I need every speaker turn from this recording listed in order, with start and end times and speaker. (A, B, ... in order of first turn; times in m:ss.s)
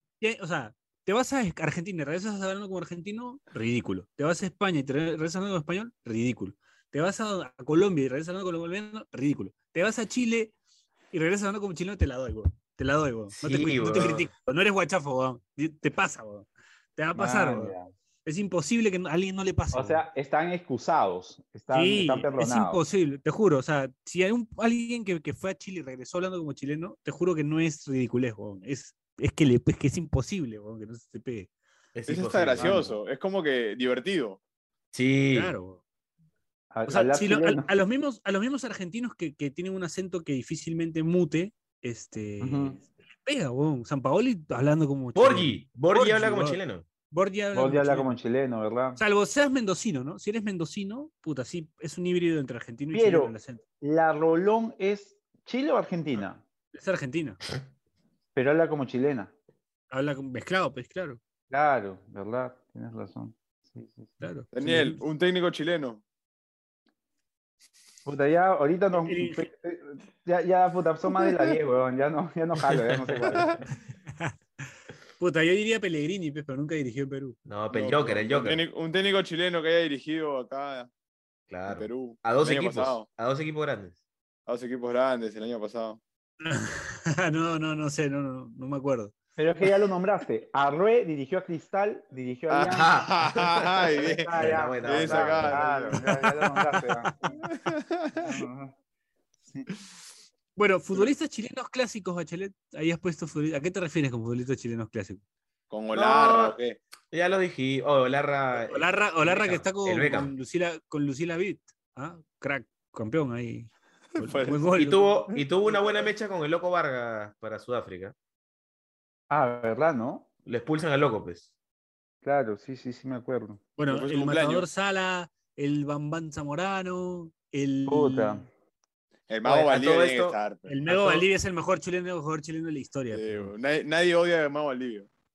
0:00.2-0:10.5 A
0:11.1-0:20.0 A
0:13.4-0:14.3 B
0:17.1-0:17.9 C
0:19.7-0:22.8 C
0:21.7-0:31.5 A
0:31.9-0:33.0 B
0:32.1-0:34.4 D
0:32.6-0:32.9 C
0:34.9-0:35.5 B
0:35.3-0:35.8 A
0:36.7-0:37.7 C
0:36.9-0:48.1 A
0:42.4-0:42.8 C
0:45.1-0:46.9 B
0:47.5-0:49.0 C
0:49.0-0:53.6 A
0:52.9-0:56.4 C
0:56.7-0:57.4 A
0:58.3-0:59.3 C
0:59.9-1:01.2 A
1:01.5-1:04.1 C
1:04.2-1:05.0 A
1:04.5-1:06.0 D
1:08.0-1:13.6 C
1:09.0-1:09.5 A
1:15.2-1:17.4 A
1:17.4-1:18.6 B
1:17.7-1:20.9 D
1:21.5-1:24.0 B
1:21.7-1:23.0 D
1:24.5-1:26.0 D
1:26.4-1:29.1 A
1:29.4-1:33.0 C
1:32.5-1:36.1 D
1:32.6-1:35.7 B
1:33.9-1:37.4 C
1:36.0-1:36.3 A
1:37.4-1:38.4 D
1:38.2-1:38.7 C
1:40.6-1:45.2 A
1:45.7-1:46.8 D
1:45.9-1:46.6 B
1:47.1-1:50.3 B
1:48.6-1:55.2 A
1:54.2-1:54.8 D
1:54.8-1:58.1 B
1:55.3-1:55.8 D
1:59.3-2:00.2 C
2:00.4-2:01.5 B
2:02.2-2:03.6 C
2:03.8-2:08.4 A
2:03.9-2:04.7 D
2:07.9-2:08.5 C
2:09.3-2:11.2 D
2:09.4-2:10.4 B
2:10.7-2:13.5 A
2:13.1-2:15.1 D